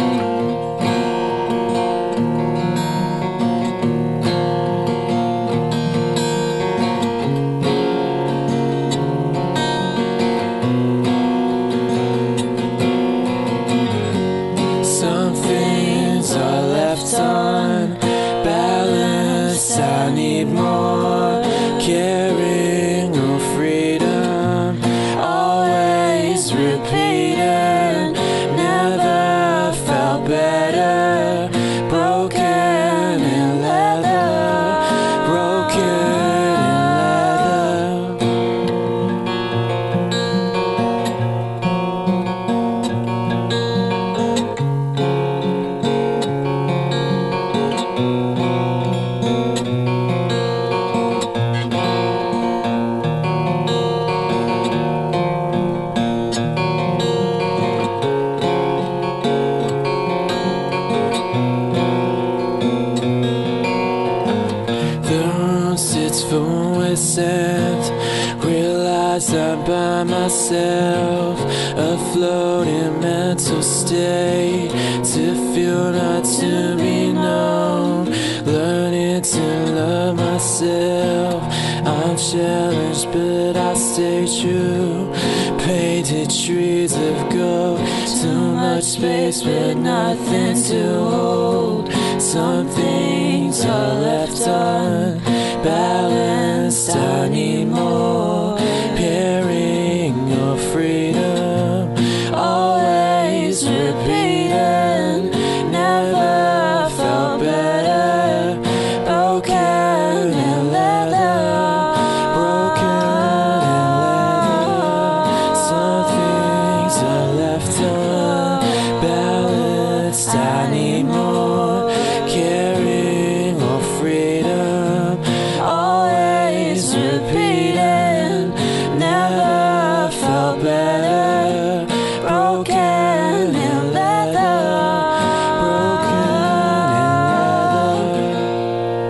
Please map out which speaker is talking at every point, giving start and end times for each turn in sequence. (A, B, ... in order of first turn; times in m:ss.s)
0:14.8-0:38.2 A
1:05.0-2:18.3 A